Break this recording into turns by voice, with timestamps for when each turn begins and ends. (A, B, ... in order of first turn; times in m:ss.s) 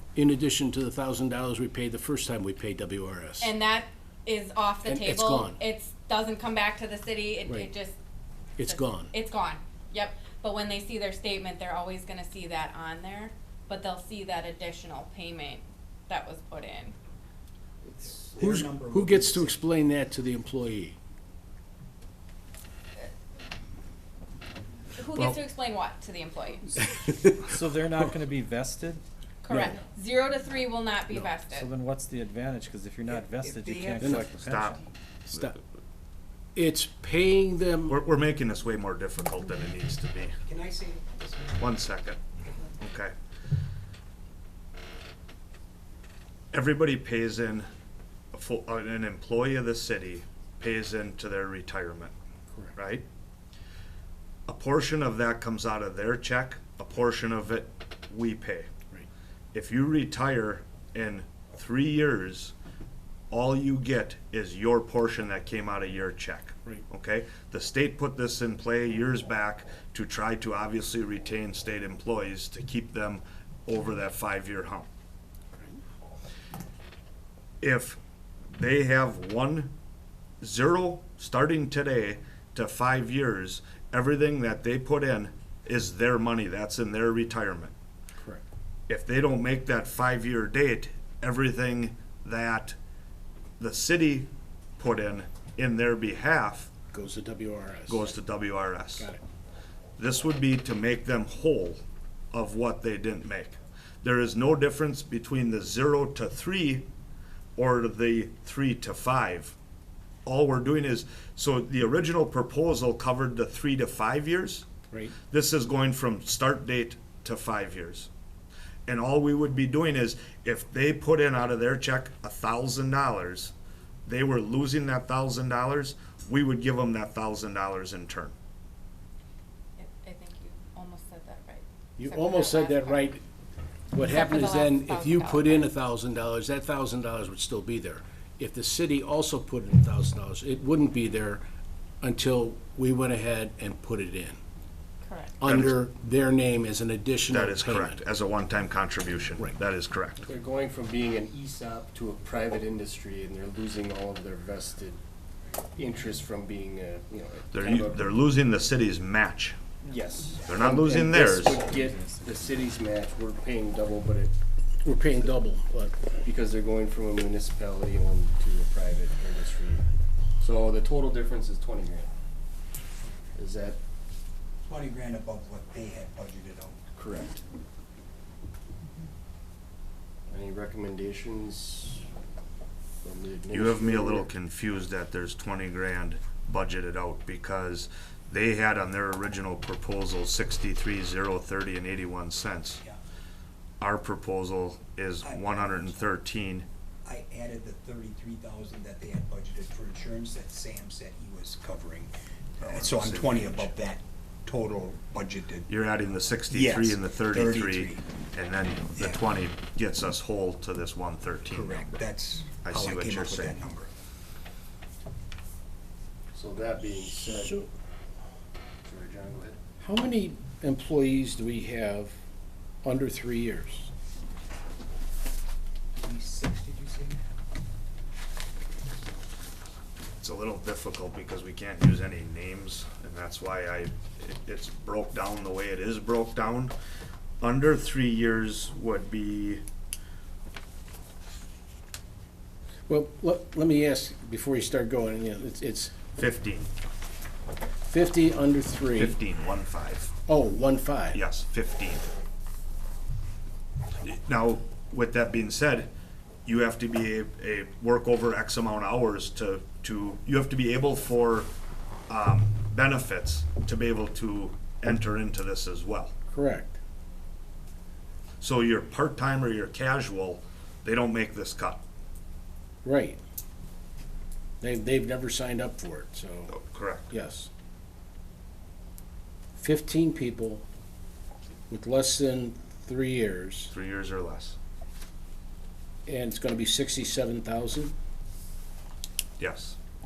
0:00.2-0:03.5 A
0:03.4-0:07.9 B
0:04.8-0:05.6 A
0:08.6-0:09.1 A
0:08.6-0:17.0 B
0:18.0-0:19.6 C
0:18.4-0:21.0 A
0:24.9-0:26.8 B
0:26.9-0:27.5 A
0:27.4-0:29.0 D
0:29.4-0:31.7 B
0:29.5-0:29.8 A
0:31.5-0:34.8 D
0:33.1-0:34.3 C
0:34.3-0:34.8 E
0:35.3-0:35.6 A
0:36.5-0:38.0 A
0:37.9-0:40.4 E
0:40.4-0:41.8 C
0:41.6-0:42.2 E
0:42.4-0:42.8 C
0:42.8-0:43.1 E
0:46.5-0:47.7 E
0:48.3-0:52.1 E
0:52.7-0:53.0 E
0:54.5-0:58.7 E
0:59.5-1:02.5 E
1:03.3-1:14.9 E
1:17.6-1:18.0 E
1:18.5-1:19.7 E
1:20.4-1:27.7 E
1:28.9-1:32.8 E
1:33.6-1:36.7 E
1:36.9-1:38.1 A
1:37.9-1:39.1 E
1:39.0-1:39.2 A
1:40.0-1:46.8 E
1:47.6-1:49.5 E
1:50.2-1:54.6 E
1:55.3-1:58.1 E
1:58.9-2:03.5 E
2:04.0-2:08.3 E
2:09.8-2:13.0 B
2:12.0-2:13.2 A
2:13.9-2:21.4 A
2:14.0-2:15.7 B
2:22.0-2:24.4 A
2:25.0-2:25.3 B
2:25.4-2:28.0 A
2:25.4-2:25.8 E
2:27.3-2:30.2 E
2:30.2-2:35.0 F
2:35.8-2:38.1 F
2:37.5-2:39.6 E
2:39.9-2:40.4 C
2:40.0-2:44.3 F
2:40.4-2:41.6 E
2:41.5-2:42.6 D
2:44.8-2:46.0 A
2:46.2-2:49.8 F
2:50.4-2:52.1 F
2:53.4-2:53.8 F
2:54.6-2:56.8 C
2:57.0-2:57.4 F
3:00.3-3:02.1 F
3:03.0-3:04.3 F
3:03.5-3:12.8 E
3:13.8-3:16.7 E
3:15.2-3:16.0 C
3:17.0-3:25.7 C
3:22.6-3:23.7 E
3:25.7-3:31.9 E
3:26.5-3:28.0 C
3:29.0-3:29.2 C
3:31.5-3:33.9 C
3:32.6-3:33.6 E
3:36.3-3:37.6 F
3:37.4-3:37.7 A
3:38.8-3:39.6 F
3:39.8-3:42.2 A
3:42.8-3:43.9 A
3:46.0-3:47.2 C
3:50.2-3:56.7 E
3:57.4-3:59.6 E
4:02.9-4:06.0 A
4:06.2-4:06.7 E
4:07.8-4:09.2 A
4:09.0-4:10.1 E
4:10.2-4:11.2 A
4:11.1-4:12.1 E
4:14.0-4:15.9 E
4:16.4-4:21.5 E
4:22.1-4:26.1 E
4:26.3-4:26.8 A
4:28.4-4:31.8 E
4:32.8-4:33.2 A
4:34.6-4:36.5 A
4:36.5-4:37.1 E
4:37.1-4:37.5 A
4:39.6-4:40.6 A
4:41.7-4:43.7 A
4:43.7-4:44.6 E
4:46.0-4:47.9 A
4:49.4-4:49.8 E